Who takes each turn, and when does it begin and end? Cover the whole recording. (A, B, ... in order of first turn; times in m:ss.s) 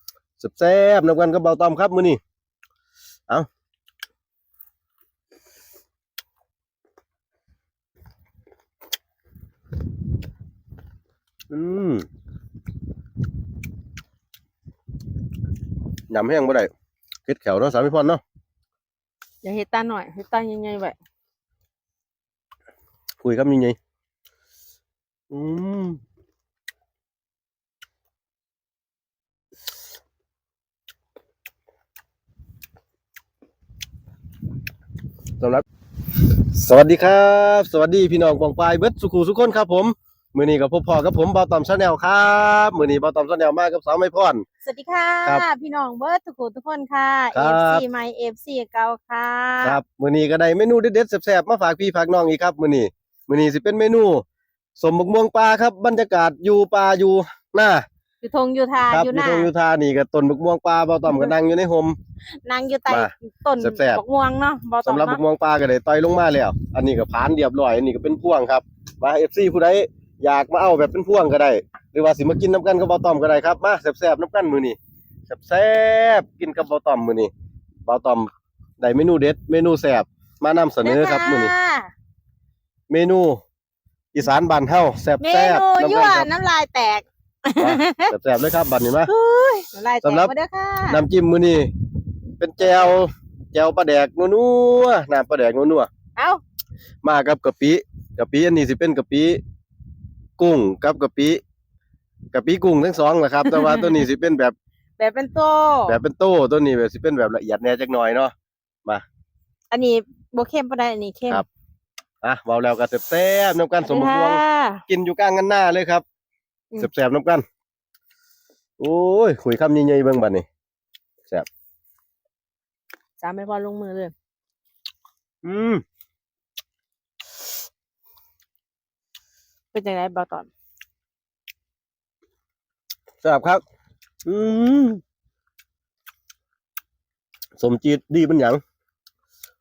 0:00.4-0:02.2 A
0:11.5-0:12.0 A
0:16.1-0:16.7 A
0:17.3-0:18.2 A
0:19.4-0:21.0 B
0:23.2-0:23.8 A
0:25.3-0:26.0 A
0:36.5-0:44.4 A
0:44.6-0:49.8 B
0:47.3-0:47.8 A
0:49.6-0:54.2 A
0:54.8-0:57.8 A
0:58.2-0:59.5 B
0:58.8-1:02.0 A
1:02.4-1:05.2 B
1:02.9-1:04.0 A
1:04.8-1:14.8 A
1:15.3-1:17.3 A
1:17.8-1:21.5 A
1:20.8-1:21.9 B
1:22.9-1:23.4 A
1:24.1-1:26.3 A
1:25.2-1:28.1 B
1:27.6-1:29.1 A
1:29.0-1:31.0 B
1:30.0-1:30.3 A
1:30.9-1:31.7 A
1:32.4-1:35.9 A
1:36.2-1:36.4 B
1:37.0-1:39.4 A
1:40.4-1:41.4 A
1:42.3-1:44.5 A
1:43.5-1:43.9 B
1:45.0-1:46.0 B
1:45.9-1:48.3 A
1:49.7-1:51.4 B
1:52.2-1:56.0 A
1:53.8-1:54.8 B
1:56.8-1:57.4 A
1:58.8-2:00.4 A
2:03.2-2:04.1 B
2:05.4-2:05.8 A
2:09.7-2:10.5 B
2:13.2-2:13.6 A
2:14.2-2:15.0 A
2:17.6-2:18.6 A